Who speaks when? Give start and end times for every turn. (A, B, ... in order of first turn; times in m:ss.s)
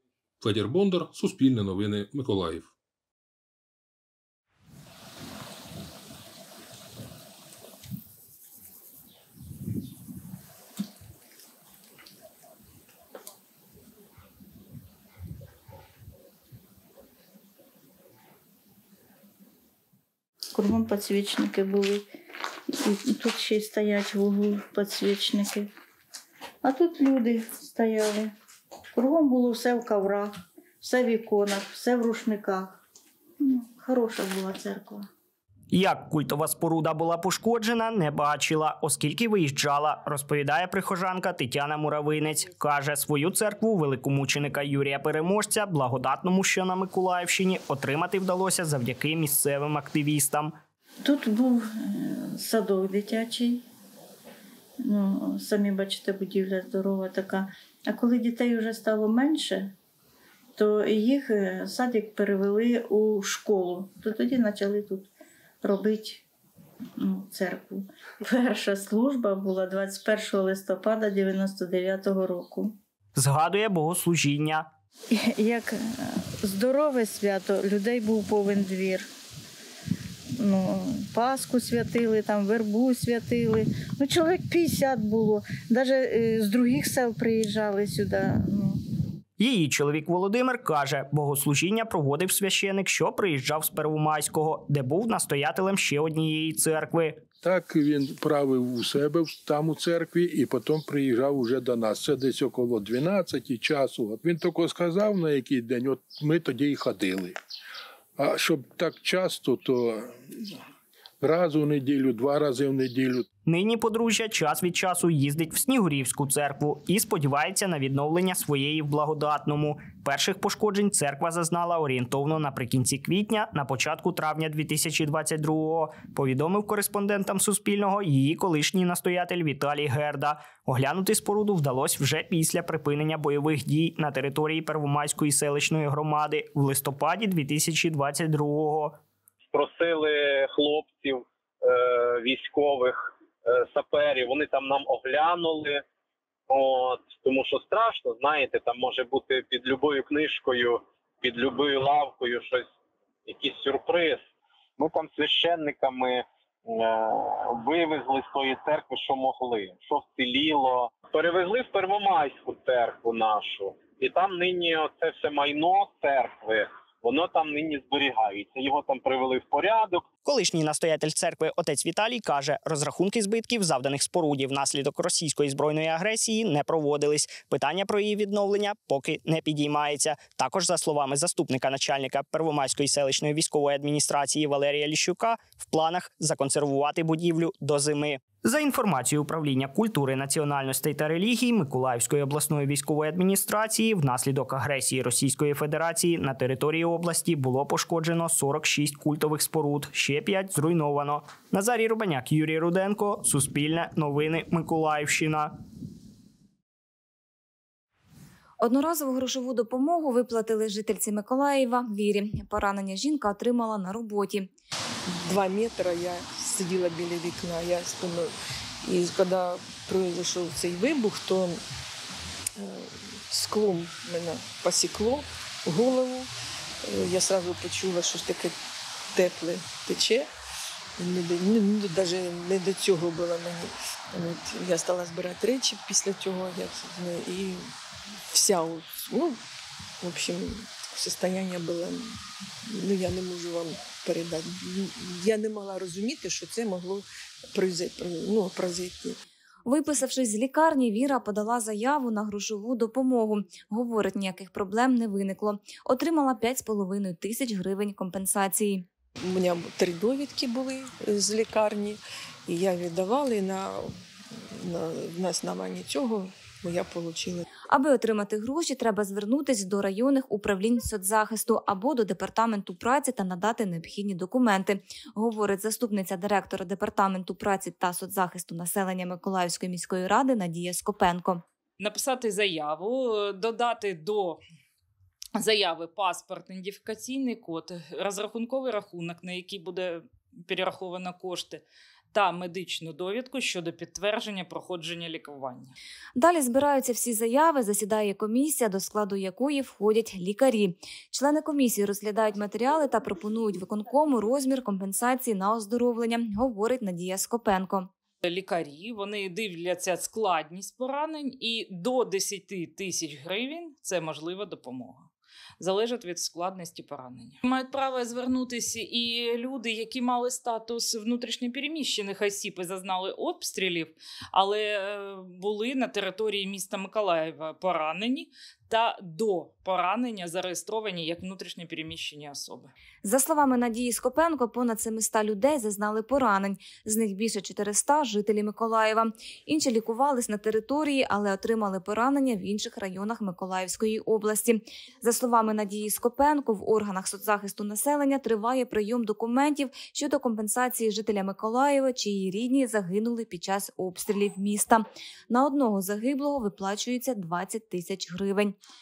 0:00.4-0:02.7 A
0:20.5-0:22.1 B
0:22.8-0:25.7 B
0:26.6-0:28.3 B
0:29.0-0:32.8 B
0:33.4-0:35.0 B
0:35.7-0:50.5 C
0:51.0-0:53.6 B
0:54.8-0:59.7 B
1:00.6-1:05.1 B
1:05.6-1:06.2 B
1:07.0-1:12.7 B
1:13.2-1:14.7 C
1:15.1-1:15.7 B
1:16.4-1:19.0 B
1:20.4-1:28.8 B
1:29.4-1:37.2 C
1:37.4-1:47.4 D
1:48.2-1:50.1 D
1:51.2-1:53.2 D
1:53.5-2:19.0 C
2:19.5-2:25.8 E
2:26.5-2:32.7 E
2:33.3-2:34.2 E
2:34.8-2:50.0 E
2:50.2-3:25.5 C
3:28.6-3:34.5 F
3:35.1-3:38.3 G
3:38.8-3:41.6 G
3:42.6-3:46.3 G
3:46.8-3:48.5 G
3:49.1-3:50.3 G
3:51.0-3:57.7 G
3:58.3-3:59.4 G
4:00.0-4:02.1 G
4:02.7-4:09.2 G
4:09.6-4:18.9 F
4:19.2-4:23.9 G
4:24.6-4:27.4 G
4:27.7-4:41.4 F
4:41.8-4:44.4 H
4:45.4-4:55.7 H
4:56.2-5:07.9 F
5:08.2-5:15.1 H
5:15.6-5:32.7 H
5:33.0-5:58.6 F